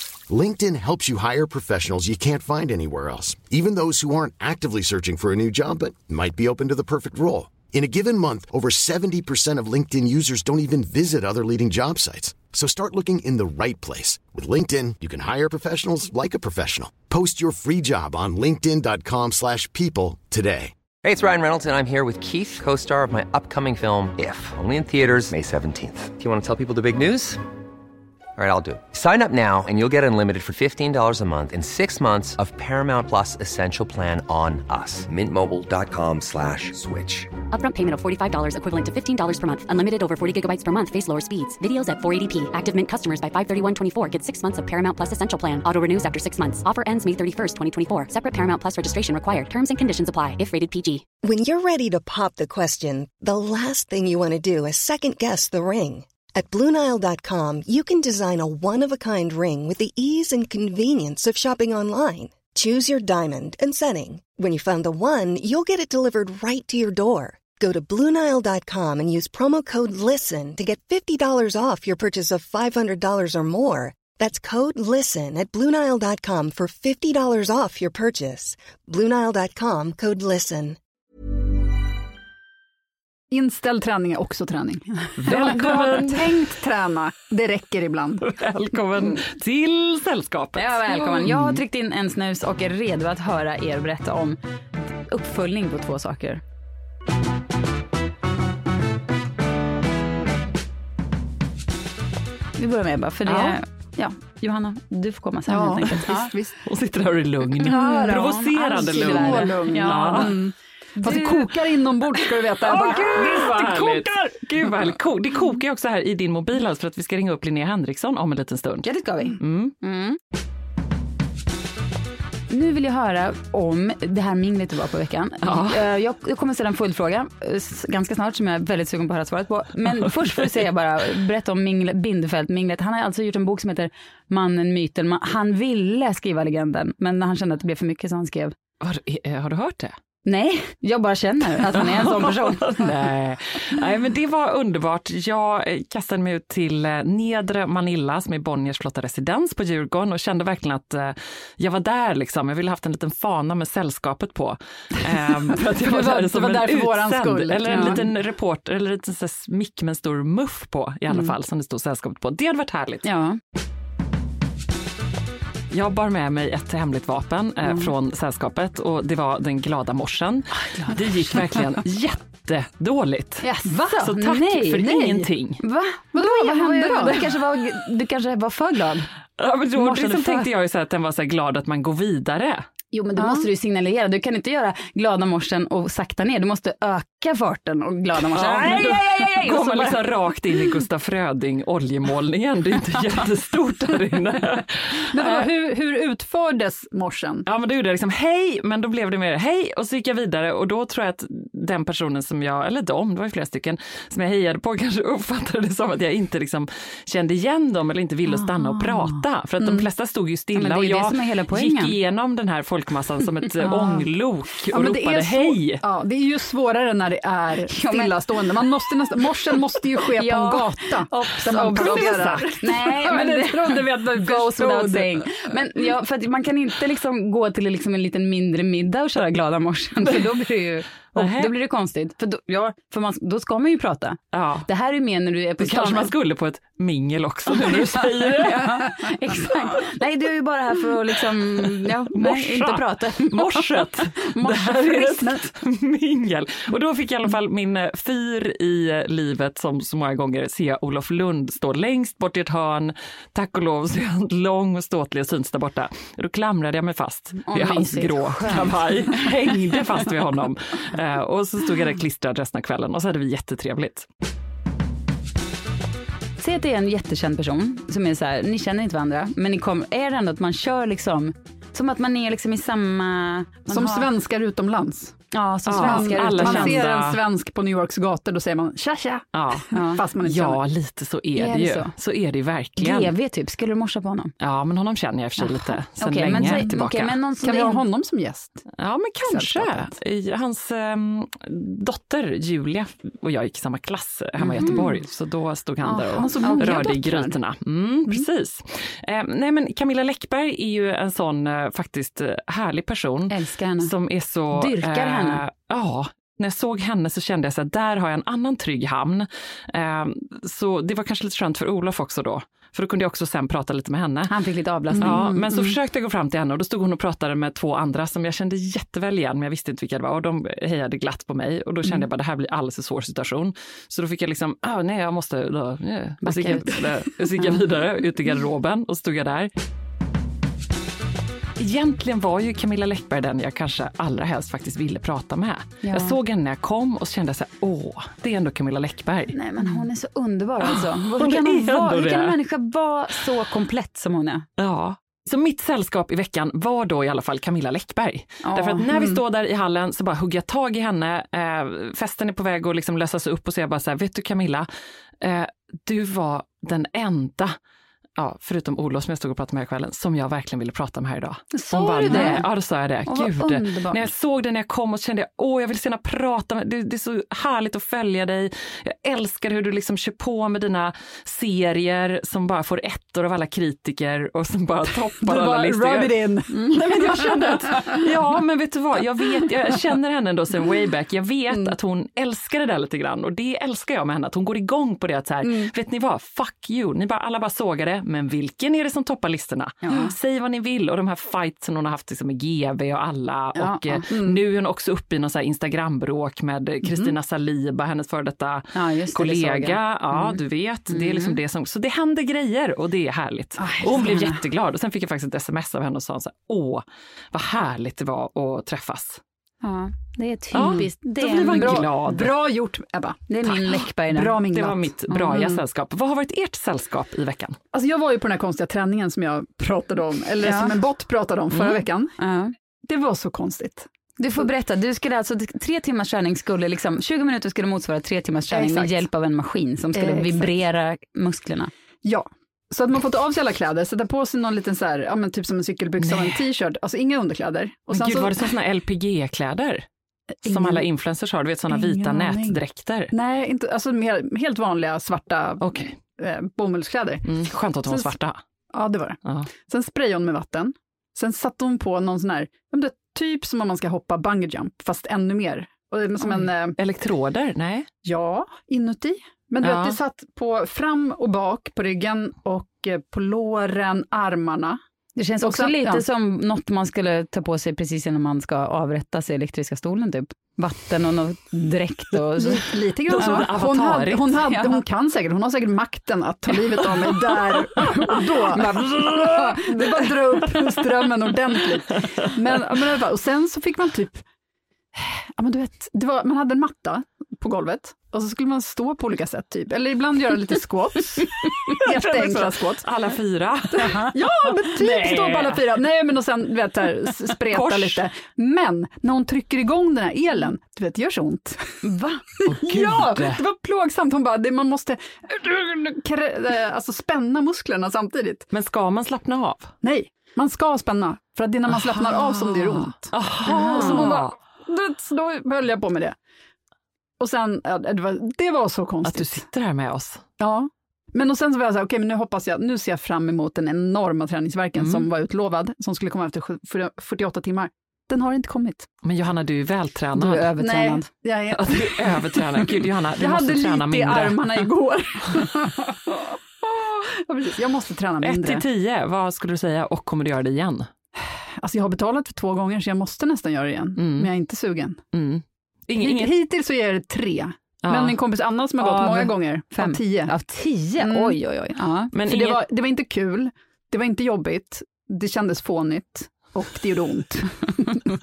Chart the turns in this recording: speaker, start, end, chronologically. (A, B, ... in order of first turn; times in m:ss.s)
0:00.3-0:20.7 A
0:21.0-0:27.4 B
0:28.4-0:37.3 B
0:37.5-0:51.0 C
0:51.2-1:20.8 D
1:23.3-1:28.3 E
1:25.2-1:26.4 F
1:28.2-1:31.6 F
1:30.6-1:34.4 G
1:35.1-1:36.4 G
1:42.6-1:46.3 G
1:45.5-1:46.6 E
1:46.7-1:50.4 F
1:47.6-1:54.1 E
1:47.6-1:50.4 G
1:51.0-1:51.5 G
1:52.6-1:59.8 F
1:58.8-2:00.2 G
2:02.5-2:18.6 G
2:05.4-2:05.9 F
2:18.8-2:20.0 F
2:20.3-2:22.9 G
2:21.7-2:43.1 F
2:35.7-2:38.0 E
2:37.7-2:38.0 G
2:43.0-2:43.4 G
2:45.7-2:55.6 F
2:53.5-2:54.1 E
2:53.6-2:54.9 G
2:54.8-2:55.3 E
2:55.6-2:59.1 G
2:56.1-2:57.3 E
2:59.4-3:02.6 F
2:59.8-3:00.2 E
2:59.9-3:00.4 G
3:02.9-3:03.5 E
3:03.2-3:10.1 G
3:08.3-3:15.5 F
3:08.6-3:08.9 E
3:15.1-3:17.5 E
3:17.5-3:35.8 F
3:30.6-3:32.0 G
3:34.7-3:45.1 E
3:37.7-3:38.1 G
3:40.1-3:56.1 G
3:41.4-3:42.8 F
3:44.6-3:45.0 F
3:51.1-3:51.5 F
3:54.3-3:54.7 F
3:55.6-3:58.8 F
3:57.7-4:05.4 G
4:02.1-4:24.1 F
4:17.5-4:19.3 G
4:26.4-4:34.1 G
4:33.7-4:35.2 E
4:35.3-4:36.9 G
4:35.7-4:37.2 F
4:35.8-4:40.6 E
4:39.3-4:43.1 F
4:39.7-4:40.0 G
4:41.4-4:41.9 G
4:42.8-4:44.3 G
4:44.4-4:47.2 F
4:45.4-4:47.8 G
4:46.3-4:46.7 E
4:47.4-4:48.6 E
4:48.8-5:14.3 F
4:49.2-4:49.9 E
4:54.4-4:55.0 E
4:54.6-4:54.9 G
4:55.8-4:57.4 E
4:55.9-4:56.8 G
5:03.3-5:03.9 G
5:04.5-5:05.4 G
5:14.3-5:15.3 G
5:15.0-5:15.7 E
5:15.0-5:29.5 F
5:26.2-5:26.9 G
5:31.6-5:39.4 F
5:35.8-5:36.2 G
5:39.3-5:44.5 G
5:40.6-5:42.4 F
5:44.6-5:54.7 F
5:48.4-5:48.9 G
5:48.9-5:49.2 E
5:55.2-5:57.6 F
5:58.2-6:49.2 F
6:01.6-6:02.5 G
6:01.8-6:02.4 E
6:03.1-6:04.0 G
6:15.2-6:18.1 E
6:25.4-6:25.7 E
6:29.8-6:30.1 G
6:33.6-6:34.0 G
6:34.1-6:34.4 E
6:36.8-6:37.1 E
6:38.8-6:40.4 G
6:40.9-6:41.4 G
6:43.6-6:44.2 E
6:43.7-6:44.3 G
6:49.6-6:52.0 G
6:50.5-6:52.4 F
6:50.6-6:50.9 E
6:51.5-6:55.6 E
6:53.3-6:54.4 G
6:54.5-6:57.6 F
6:57.7-7:02.2 E
7:00.4-7:00.7 G
7:01.5-7:01.8 F
7:02.2-7:02.5 G
7:02.9-7:03.9 E
7:04.2-7:11.7 G
7:08.5-7:09.1 E
7:09.9-7:10.5 E
7:12.0-7:18.5 E
7:16.0-7:16.4 F
7:17.9-7:19.9 F
7:20.4-7:20.9 E
7:20.5-7:23.1 F
7:21.7-7:28.2 E
7:25.6-7:26.0 F
7:27.2-7:28.4 F
7:28.7-7:36.8 E
7:29.2-7:29.5 F
7:36.2-7:37.9 F
7:38.0-7:44.8 E
7:39.6-7:40.0 F
7:45.2-7:52.6 G
7:45.4-7:46.0 E
7:52.4-8:04.2 E
7:53.1-7:54.4 F
7:53.2-7:53.5 G
7:54.5-7:54.8 G
7:56.9-8:02.6 F
8:04.9-8:12.9 E
8:11.8-8:15.8 F
8:13.7-8:21.8 E
8:17.3-8:18.0 F
8:21.8-8:22.2 G
8:22.4-8:28.5 E
8:22.5-8:23.4 F
8:28.5-8:29.7 F
8:29.8-8:36.2 E
8:31.7-8:34.4 F
8:33.5-8:34.1 G
8:37.2-8:39.5 E
8:39.0-8:40.2 F
8:40.4-8:48.9 E
8:44.8-8:45.1 F
8:49.0-8:50.5 F
8:50.2-8:51.1 G
8:50.6-8:58.6 E
8:51.5-8:54.7 F
8:58.2-9:00.9 F
9:01.2-9:05.0 E
9:04.0-9:04.3 F
9:05.1-9:06.3 F
9:06.0-9:10.4 E
9:07.8-9:08.2 F
9:08.8-9:09.3 F
9:09.7-9:12.1 G
9:11.0-9:11.5 E
9:12.1-9:12.7 F
9:12.2-9:18.0 E